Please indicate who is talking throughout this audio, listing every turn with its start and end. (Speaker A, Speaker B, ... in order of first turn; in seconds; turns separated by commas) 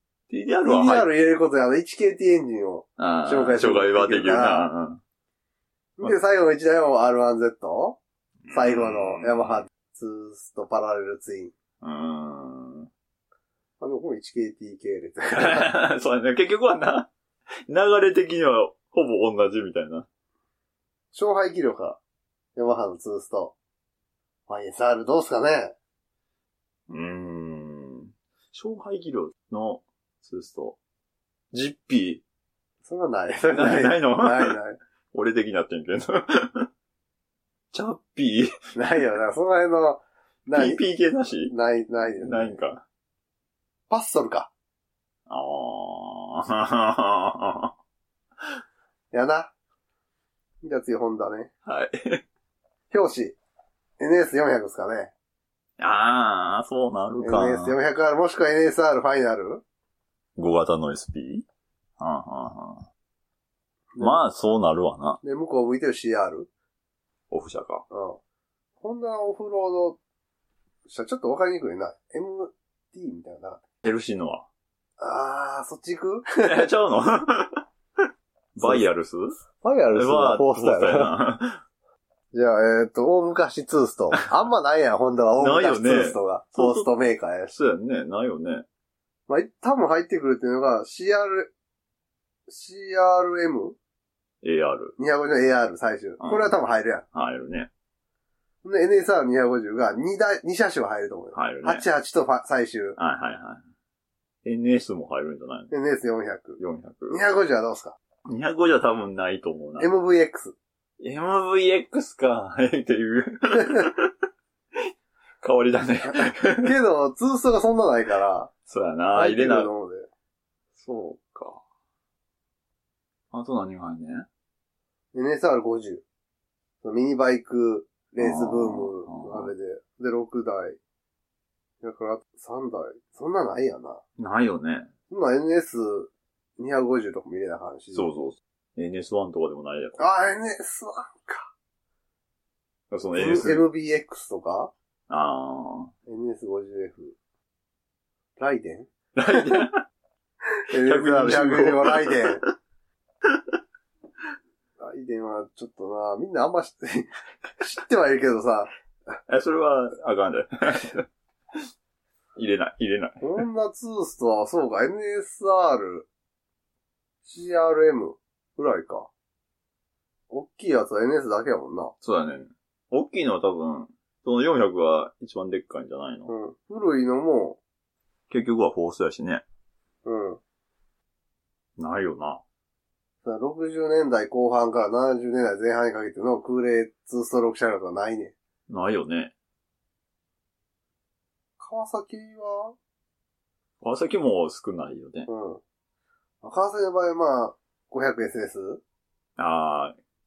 Speaker A: 0.3-1.1, Speaker B: 0.6-4.7, Speaker A: 3.0-5.0, Speaker B: 6.0-8.0, Speaker A: 8.4-9.6, Speaker B: 8.5-11.5, Speaker A: 11.8-12.9, Speaker B: 13.8-15.7, Speaker A: 15.4-17.1, Speaker A: 17.7-20.1, Speaker B: 21.1-22.0, Speaker B: 22.6-23.5, Speaker B: 24.5-25.7, Speaker A: 26.9-30.8, Speaker A: 31.5-32.2, Speaker B: 32.8-34.8, Speaker A: 33.5-34.6, Speaker A: 35.1-36.7, Speaker A: 37.7-38.5, Speaker B: 38.8-40.8, Speaker A: 40.5-41.5, Speaker B: 41.5-42.6, Speaker A: 42.2-42.8, Speaker B: 43.9-44.5, Speaker A: 45.3-47.7, Speaker B: 49.1-49.5, Speaker B: 50.6-51.5, Speaker A: 51.6-52.2, Speaker B: 52.9-53.4, Speaker B: 54.0-55.1, Speaker A: 55.8-57.8, Speaker B: 57.2-59.6, Speaker A: 60.4-61.4, Speaker A: 62.0-62.9, Speaker B: 64.0-64.2, Speaker A: 64.0-65.2, Speaker B: 65.2-66.5, Speaker A: 67.3-67.8, Speaker B: 67.9-68.2, Speaker B: 68.8-70.0, Speaker B: 70.9-73.6, Speaker A: 73.8-74.5, Speaker B: 75.0-76.6, Speaker A: 76.4-77.6, Speaker A: 78.5-79.4, Speaker B: 79.6-81.1, Speaker A: 79.9-81.6, Speaker B: 82.3-87.5, Speaker A: 85.4-86.9, Speaker A: 87.5-88.7, Speaker B: 89.3-91.5, Speaker B: 92.5-93.8, Speaker A: 94.4-95.0, Speaker B: 95.0-97.0, Speaker A: 96.2-96.6, Speaker A: 97.1-97.7, Speaker B: 98.6-103.0, Speaker A: 101.3-101.8, Speaker A: 103.0-103.6, Speaker A: 104.4-105.7, Speaker B: 105.7-108.0, Speaker A: 106.6-107.2, Speaker A: 108.3-109.9, Speaker B: 109.8-110.5, Speaker A: 111.0-114.1, Speaker A: 115.4-116.7, Speaker B: 116.0-118.5, Speaker A: 118.7-119.7, Speaker B: 119.1-120.1, Speaker A: 120.8-121.6, Speaker A: 123.3-124.2, Speaker B: 125.1-126.0, Speaker B: 126.8-130.8, Speaker A: 128.2-129.5, Speaker B: 131.8-134.0, Speaker A: 134.2-134.9, Speaker B: 135.1-138.1, Speaker A: 137.9-140.0, Speaker B: 140.0-141.5, Speaker A: 142.9-143.7, Speaker B: 143.2-144.7, Speaker A: 145.1-145.9, Speaker B: 146.1-147.1, Speaker B: 148.4-148.9, Speaker A: 149.2-149.8, Speaker B: 150.7-152.4, Speaker A: 150.8-152.5, Speaker B: 154.8-158.7, Speaker A: 159.3-161.0, Speaker A: 162.3-163.4, Speaker B: 163.2-166.1, Speaker B: 167.2-169.1, Speaker B: 170.3-171.9, Speaker A: 172.0-176.3, Speaker B: 176.3-177.6, Speaker A: 178.3-179.4, Speaker B: 180.0-180.4, Speaker A: 181.8-182.4, Speaker B: 183.2-188.3, Speaker A: 188.7-189.3, Speaker B: 191.6-192.7, Speaker A: 193.8-195.3, Speaker B: 195.3-195.6, Speaker B: 196.4-198.8, Speaker A: 199.4-199.9